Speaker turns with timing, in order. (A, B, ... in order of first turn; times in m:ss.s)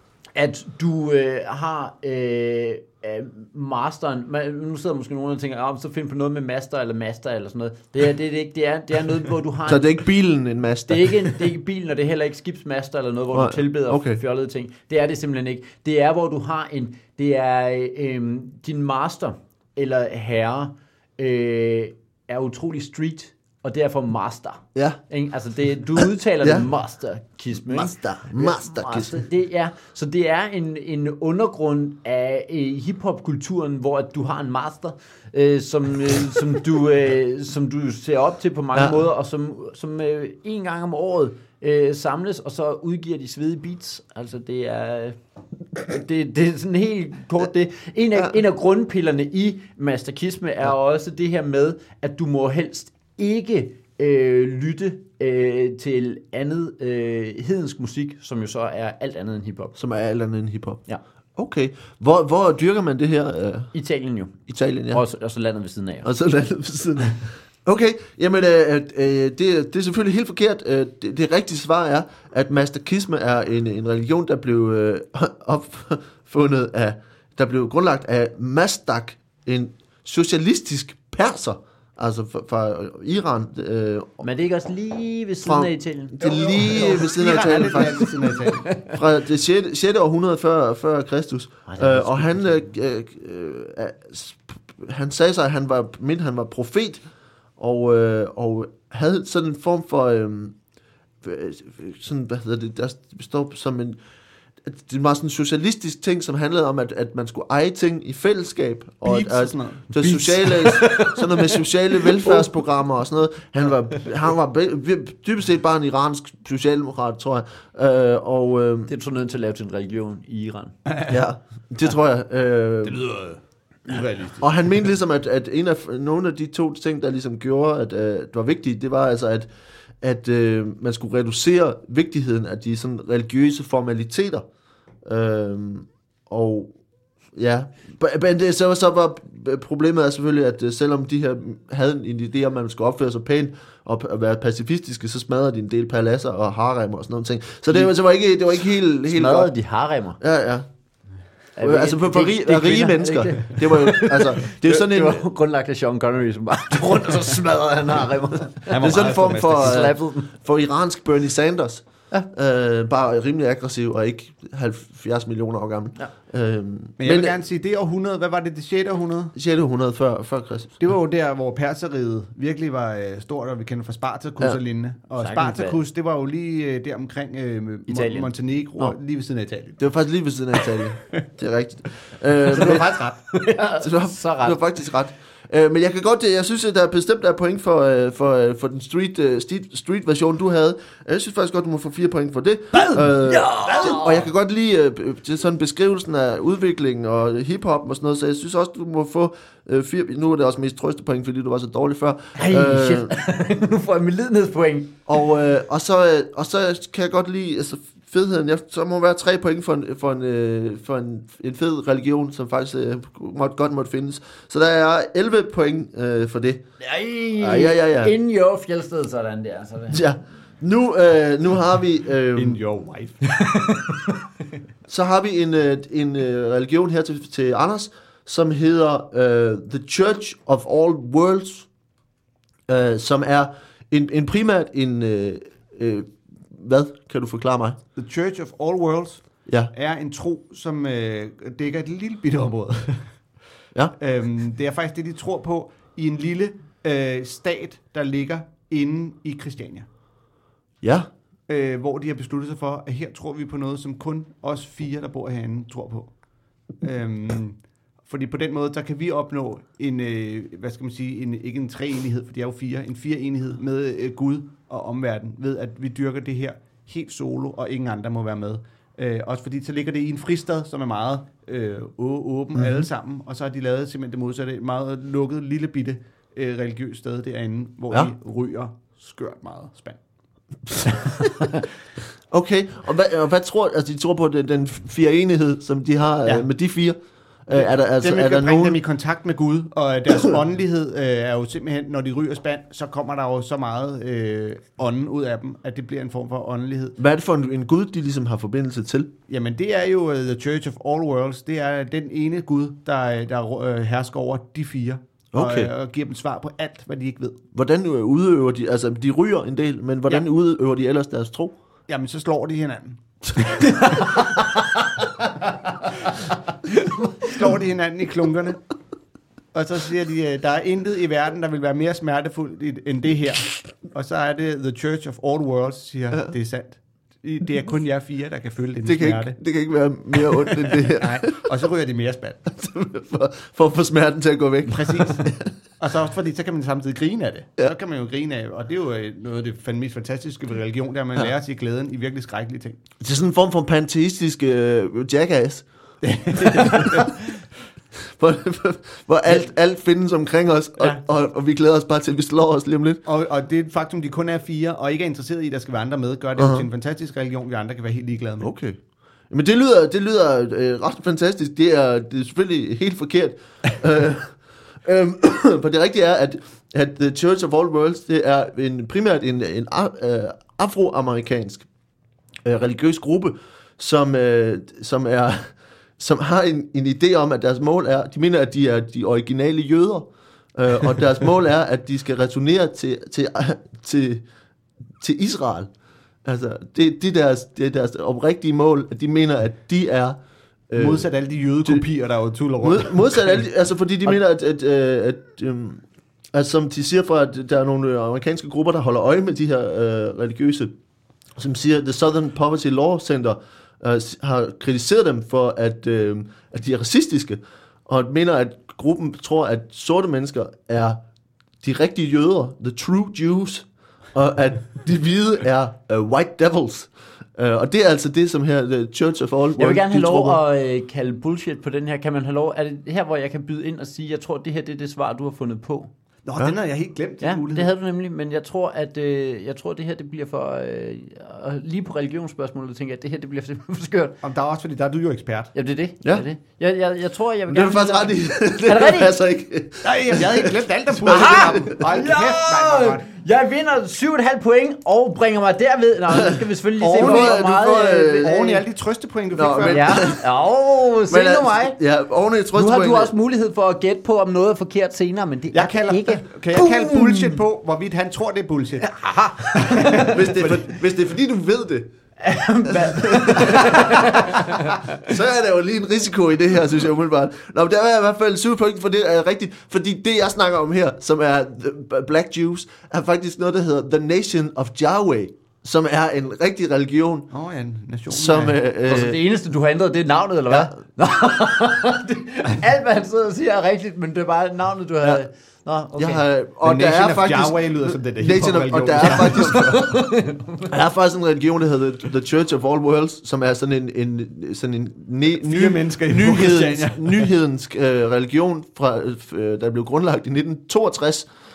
0:00.3-0:09.9 A
0:09.7-0:11.4 B
0:10.9-0:45.2 A
0:13.3-0:14.2 B
0:24.7-0:25.0 B
0:27.6-0:29.2 B
0:38.7-0:39.0 B
0:45.7-0:59.7 A
0:59.7-1:00.8 B
1:01.4-1:03.7 B
1:03.7-1:06.1 A
1:04.5-1:05.0 B
1:06.0-1:24.2 B
1:24.2-1:27.0 A
1:25.4-1:28.3 B
1:26.2-1:28.7 C
1:27.8-1:29.0 A
1:28.9-1:37.0 B
1:31.7-1:32.6 A
1:37.6-1:40.6 B
1:41.2-1:44.0 B
1:44.6-1:58.9 B
1:49.0-1:51.1 C
1:50.6-1:51.1 A
1:58.9-2:00.9 A
2:01.1-2:03.0 B
2:02.8-2:04.5 C
2:04.4-2:09.5 B
2:10.0-2:14.4 B
2:15.0-2:16.7 B
2:17.3-2:29.5 B
2:29.1-2:30.2 A
2:30.2-2:30.6 B
2:31.6-2:40.3 A
2:31.6-2:35.2 B
2:38.7-2:39.9 C
2:38.8-2:47.4 B
2:47.0-2:49.3 C
2:49.3-2:50.8 B
2:50.8-2:59.9 C
2:55.2-2:55.8 A
2:57.9-2:58.9 A
2:59.8-3:02.9 B
3:02.5-3:03.2 C
3:03.3-3:04.6 A
3:03.8-3:23.1 B
3:12.8-3:14.2 A
3:22.4-3:25.0 A
3:25.1-3:36.6 B
3:36.8-3:40.0 A
3:37.4-3:38.1 B
3:39.9-3:42.6 B
3:42.3-3:43.4 C
3:43.3-3:44.1 A
3:44.9-3:51.7 B
3:52.7-3:57.8 B
3:58.0-4:03.1 C
4:04.0-4:09.9 C
4:10.8-4:11.1 B
4:11.5-4:16.1 C
4:16.8-4:40.0 C
4:32.6-4:32.8 B
4:42.3-4:48.8 B
4:47.5-4:57.0 C
4:57.0-4:59.1 B
4:59.3-5:07.4 C
5:05.3-5:05.7 B
5:07.5-5:11.5 B
5:11.9-5:13.0 C
5:13.8-5:14.2 A
5:17.2-5:18.6 C
5:19.5-5:29.4 C
5:28.8-5:31.4 B
5:30.5-5:32.4 C
5:32.5-5:35.5 B
5:34.6-5:35.3 C
5:35.8-5:42.8 C
5:43.0-5:45.6 B
5:46.0-5:47.2 C
5:46.4-5:47.1 B
5:48.2-5:53.0 B
5:53.0-5:58.5 C
5:56.4-5:56.6 B
5:58.4-5:58.8 B
5:59.3-6:11.6 B
6:12.4-6:24.2 B
6:25.0-6:25.7 B
6:26.2-6:30.2 B
6:30.7-6:31.1 B
6:30.7-6:33.4 C
6:32.6-6:40.7 B
6:41.4-6:51.0 B
6:51.6-7:00.4 B
6:59.6-7:05.9 A
7:06.2-7:07.7 C
7:07.2-7:14.2 A
7:14.2-7:15.5 C
7:15.5-7:19.1 A
7:17.5-7:21.8 B
7:19.8-7:23.1 C
7:21.0-7:28.4 A
7:26.8-7:30.0 C
7:26.9-7:28.6 B
7:29.3-7:30.2 B
7:29.6-7:31.8 A
7:31.1-7:33.1 B
7:32.5-7:37.4 A
7:35.5-7:40.6 C
7:38.9-7:40.2 A
7:39.9-7:41.9 B
7:42.2-7:44.8 A
7:42.7-7:44.4 B
7:44.9-7:57.3 B
7:57.3-7:58.6 C
7:58.1-7:59.2 B
7:58.9-8:06.2 A
8:06.0-8:10.0 B
8:06.6-8:09.8 C
8:09.3-8:10.7 A
8:10.7-8:21.3 B
8:15.4-8:17.3 C